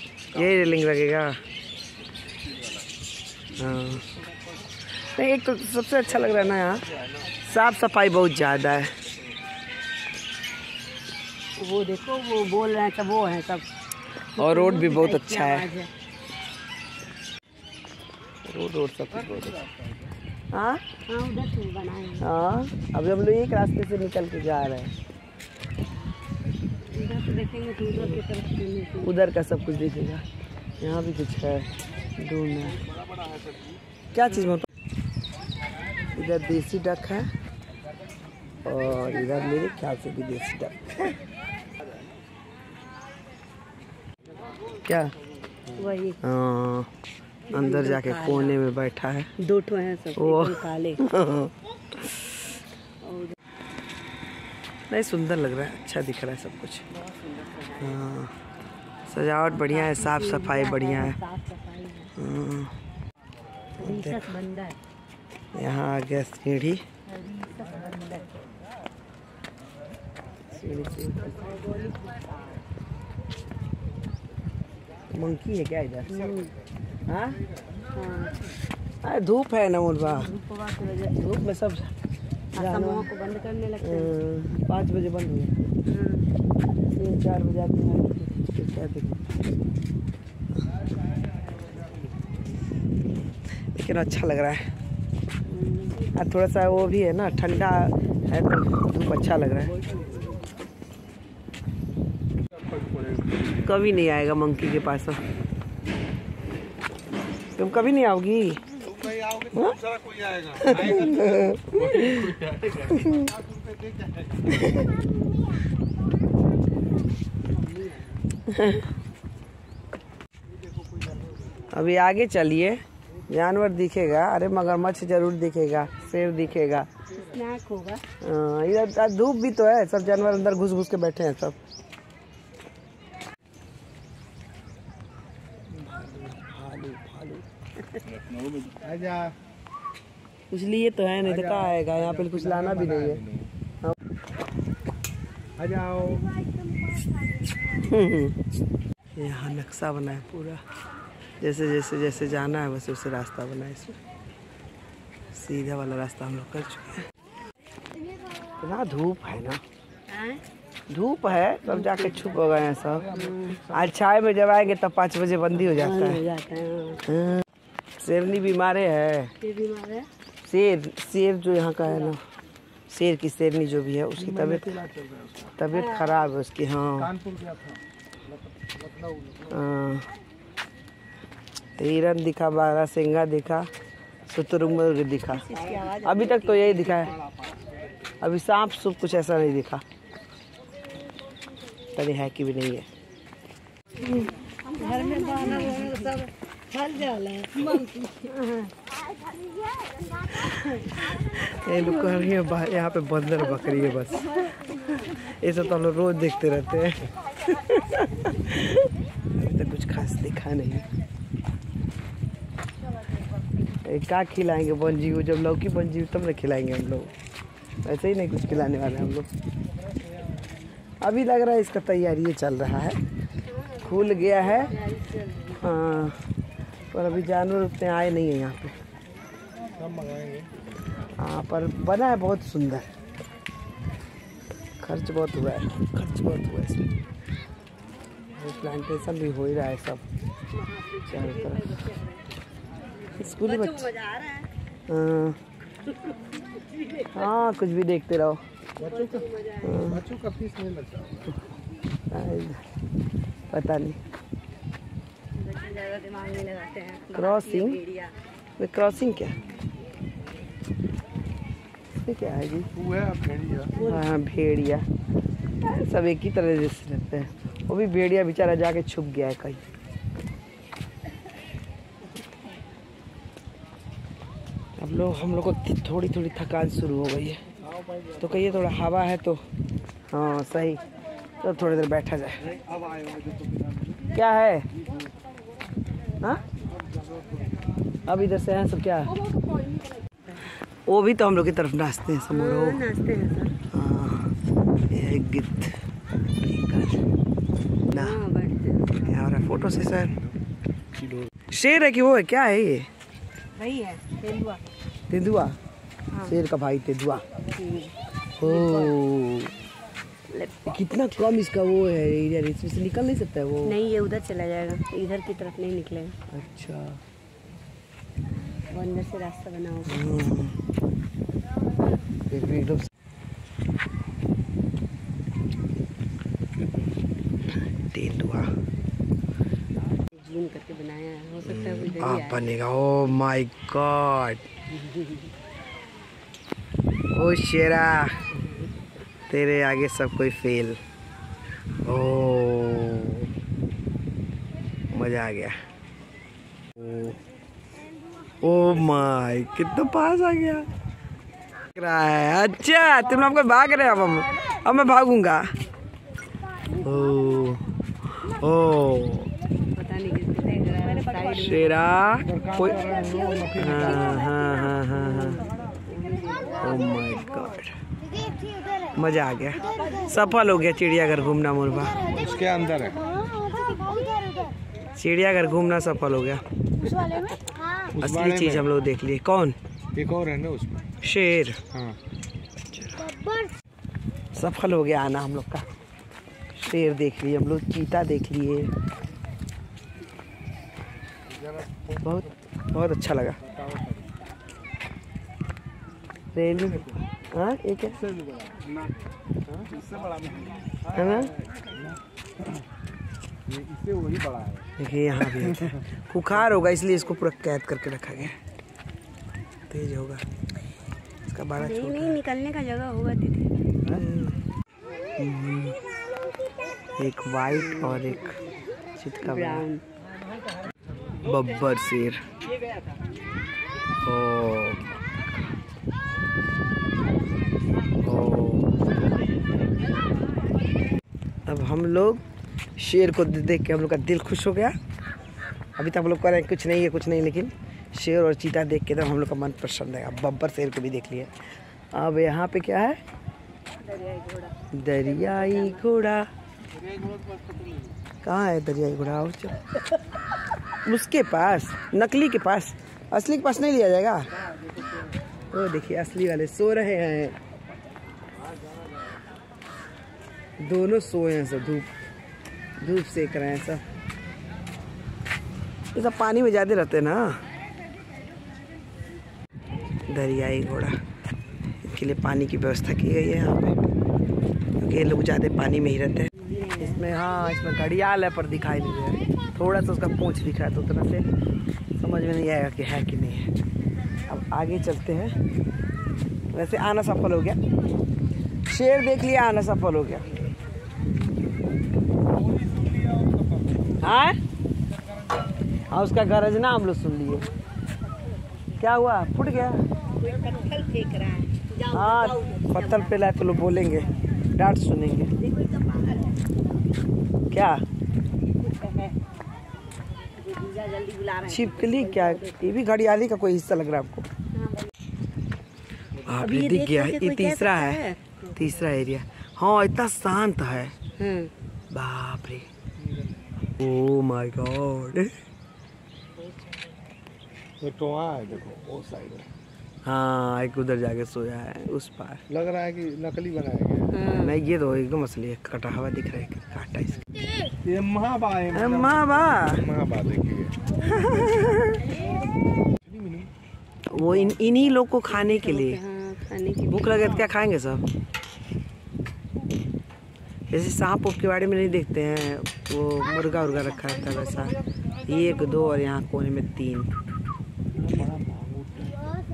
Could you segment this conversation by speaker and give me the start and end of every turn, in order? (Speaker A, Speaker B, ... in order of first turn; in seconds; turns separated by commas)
Speaker A: 0.3-1.4, Speaker A: 3.6-4.0, Speaker A: 5.1-6.8, Speaker A: 7.4-8.9, Speaker B: 11.6-13.6, Speaker B: 14.3-15.9, Speaker A: 14.4-15.7, Speaker A: 18.4-19.6, Speaker C: 19.2-20.1, Speaker A: 20.5-20.8, Speaker B: 21.1-22.3, Speaker A: 22.2-24.9, Speaker B: 26.9-29.1, Speaker A: 27.9-28.2, Speaker A: 29.0-30.2, Speaker A: 30.8-32.8, Speaker C: 32.8-33.8, Speaker A: 34.1-34.7, Speaker A: 36.1-37.3, Speaker A: 38.6-41.2, Speaker A: 44.9-45.1, Speaker B: 45.8-46.2, Speaker A: 46.2-46.9, Speaker B: 47.5-48.6, Speaker A: 47.5-49.3, Speaker B: 49.4-51.0, Speaker A: 50.1-52.3, Speaker B: 53.0-53.4, Speaker A: 54.9-56.9, Speaker B: 57.0-58.0, Speaker A: 57.8-58.3, Speaker A: 59.1-61.2, Speaker B: 59.7-62.1, Speaker A: 62.1-62.7, Speaker B: 63.8-64.8, Speaker A: 63.8-64.2, Speaker A: 65.5-66.8, Speaker B: 67.1-68.4, Speaker A: 70.5-71.4, Speaker B: 71.4-72.3, Speaker A: 75.1-76.3, Speaker B: 76.0-76.5, Speaker A: 77.1-77.4, Speaker B: 77.9-78.3, Speaker A: 79.0-80.3, Speaker B: 80.0-81.4, Speaker A: 81.1-81.9, Speaker B: 82.5-84.1, Speaker A: 82.5-83.1, Speaker A: 83.8-85.5, Speaker B: 85.8-86.3, Speaker A: 86.9-89.3, Speaker A: 93.5-94.7, Speaker B: 95.5-96.1, Speaker A: 96.1-99.7, Speaker C: 102.6-103.7, Speaker A: 103.6-105.2, Speaker A: 107.6-108.6, Speaker C: 108.8-114.7, Speaker A: 109.5-109.8, Speaker A: 110.6-113.3, Speaker A: 114.5-114.9, Speaker B: 117.5-118.2, Speaker A: 118.5-118.8, Speaker A: 121.7-126.9, Speaker B: 127.1-128.0, Speaker A: 128.2-131.6, Speaker A: 135.7-137.4, Speaker C: 138.1-139.3, Speaker A: 140.5-143.2, Speaker C: 141.2-143.5, Speaker C: 145.6-146.2, Speaker A: 147.8-148.4, Speaker A: 149.2-150.6, Speaker A: 151.4-154.0, Speaker A: 155.3-157.1, Speaker A: 158.6-159.6, Speaker B: 160.1-160.4, Speaker A: 160.9-163.1, Speaker B: 161.7-162.1, Speaker C: 162.6-163.9, Speaker B: 163.1-163.6, Speaker A: 163.7-166.2, Speaker B: 165.6-167.0, Speaker A: 167.1-167.4, Speaker A: 168.0-169.3, Speaker B: 169.4-170.1, Speaker A: 170.5-172.2, Speaker A: 172.9-174.7, Speaker C: 174.2-175.6, Speaker A: 175.6-177.1, Speaker B: 175.7-176.3, Speaker C: 176.9-179.6, Speaker A: 179.5-180.1, Speaker A: 181.8-183.7, Speaker A: 184.3-185.5, Speaker B: 185.3-186.9, Speaker A: 186.0-187.2, Speaker C: 187.1-187.6, Speaker A: 188.2-189.8, Speaker A: 191.9-192.9, Speaker A: 194.0-194.3, Speaker B: 194.7-198.7, Speaker A: 200.3-210.9, Speaker A: 213.8-217.1, Speaker A: 217.8-219.3, Speaker A: 221.0-223.0, Speaker B: 223.4-225.7, Speaker A: 223.8-224.7, Speaker A: 225.6-226.2, Speaker A: 226.9-228.8, Speaker C: 229.8-231.1, Speaker A: 231.2-232.9, Speaker A: 234.8-236.9, Speaker A: 238.4-240.0, Speaker B: 240.5-242.2, Speaker A: 241.1-241.6, Speaker A: 243.2-243.9, Speaker B: 243.3-244.5, Speaker A: 244.9-245.4, Speaker B: 245.9-247.3, Speaker A: 247.1-248.4, Speaker B: 248.8-249.8, Speaker C: 248.8-249.2, Speaker A: 249.6-250.0, Speaker C: 249.8-251.4, Speaker A: 252.1-252.6, Speaker A: 253.5-254.0, Speaker B: 255.3-258.1, Speaker A: 257.1-257.8, Speaker A: 258.6-259.3, Speaker A: 262.0-262.7, Speaker C: 262.7-263.8, Speaker B: 263.8-264.1, Speaker A: 263.8-264.9, Speaker A: 265.6-269.6, Speaker A: 274.8-277.4, Speaker C: 277.6-278.7, Speaker A: 278.2-279.4, Speaker A: 280.1-280.8, Speaker A: 281.4-282.4, Speaker C: 282.4-284.0, Speaker A: 284.1-284.7, Speaker C: 286.8-287.6, Speaker A: 288.1-289.1, Speaker A: 290.9-292.8, Speaker B: 292.3-293.6, Speaker A: 293.7-294.3, Speaker A: 294.9-297.0, Speaker B: 297.9-299.0, Speaker A: 297.9-298.2, Speaker A: 299.0-300.1, Speaker C: 299.9-300.3, Speaker C: 301.0-301.3, Speaker A: 301.5-302.9, Speaker B: 303.5-304.6, Speaker A: 305.1-305.6, Speaker B: 306.1-306.4, Speaker A: 306.2-307.2, Speaker B: 307.5-308.9, Speaker A: 308.4-309.5, Speaker B: 310.3-310.8, Speaker A: 310.7-313.8, Speaker B: 313.6-316.1, Speaker A: 316.3-317.0, Speaker B: 318.7-320.0, Speaker A: 319.8-320.6, Speaker A: 322.3-322.9, Speaker A: 327.4-328.5, Speaker B: 330.1-332.4, Speaker A: 331.4-334.5, Speaker B: 334.9-335.1, Speaker A: 337.1-338.2, Speaker A: 339.3-340.8, Speaker A: 341.8-343.3, Speaker A: 344.9-345.6, Speaker A: 348.4-350.7, Speaker A: 351.8-355.5, Speaker A: 356.8-359.3, Speaker B: 359.7-361.8, Speaker A: 361.4-362.8, Speaker C: 362.2-364.2, Speaker A: 363.6-365.4, Speaker B: 365.9-366.8, Speaker A: 366.6-367.7, Speaker A: 368.9-372.1, Speaker C: 372.1-373.0, Speaker A: 374.9-376.4, Speaker B: 376.9-377.3, Speaker A: 377.9-379.6, Speaker C: 378.0-378.7, Speaker C: 379.9-380.8, Speaker A: 381.0-381.6, Speaker A: 382.7-383.0, Speaker A: 384.3-385.6, Speaker A: 386.5-388.7, Speaker C: 391.3-392.3, Speaker A: 392.0-393.4, Speaker C: 393.4-394.1, Speaker A: 396.3-398.0, Speaker C: 397.9-398.8, Speaker C: 399.4-402.0, Speaker A: 400.9-401.3, Speaker C: 403.5-404.7, Speaker A: 404.8-408.4, Speaker A: 409.7-410.2, Speaker A: 411.3-412.2, Speaker B: 411.6-413.5, Speaker A: 413.9-414.4, Speaker A: 415.2-415.8, Speaker A: 417.0-418.4, Speaker A: 419.0-419.6, Speaker B: 419.2-419.8, Speaker A: 421.2-422.2, Speaker A: 424.0-424.9, Speaker A: 428.0-428.7, Speaker A: 431.4-432.2, Speaker A: 432.8-434.7, Speaker A: 435.8-441.3, Speaker A: 441.9-443.0, Speaker B: 443.8-445.8, Speaker A: 444.7-446.3, Speaker C: 446.9-447.7, Speaker A: 448.2-449.8, Speaker A: 450.8-454.3, Speaker A: 455.5-457.4, Speaker A: 460.6-461.9, Speaker A: 462.8-463.8, Speaker A: 465.9-467.4, Speaker A: 470.1-471.0, Speaker A: 471.8-473.8, Speaker A: 474.8-481.2, Speaker B: 476.3-477.1, Speaker A: 482.0-483.5, Speaker A: 484.3-485.3, Speaker A: 486.5-487.6, Speaker A: 488.7-490.3, Speaker C: 492.3-494.0, Speaker A: 494.0-494.4, Speaker A: 495.9-497.4, Speaker A: 498.8-499.8, Speaker B: 500.2-503.2, Speaker A: 501.9-505.3, Speaker B: 505.3-506.4, Speaker A: 507.5-507.8, Speaker B: 508.6-509.2, Speaker B: 510.4-512.6, Speaker A: 511.5-514.3, Speaker B: 514.5-514.9, Speaker A: 516.2-518.0, Speaker B: 516.4-518.6, Speaker A: 518.5-520.9, Speaker B: 521.2-521.5, Speaker A: 521.9-522.7, Speaker C: 523.0-523.8, Speaker A: 523.8-525.3, Speaker C: 527.8-529.5, Speaker A: 530.0-532.4, Speaker C: 532.5-534.1, Speaker B: 534.1-534.5, Speaker A: 534.3-537.2, Speaker C: 537.8-540.9, Speaker A: 538.7-539.8, Speaker A: 541.0-542.0, Speaker C: 543.0-543.5, Speaker A: 544.1-546.0, Speaker C: 544.2-544.8, Speaker B: 545.2-547.5, Speaker A: 546.9-548.0, Speaker A: 550.7-557.1, Speaker C: 558.0-559.2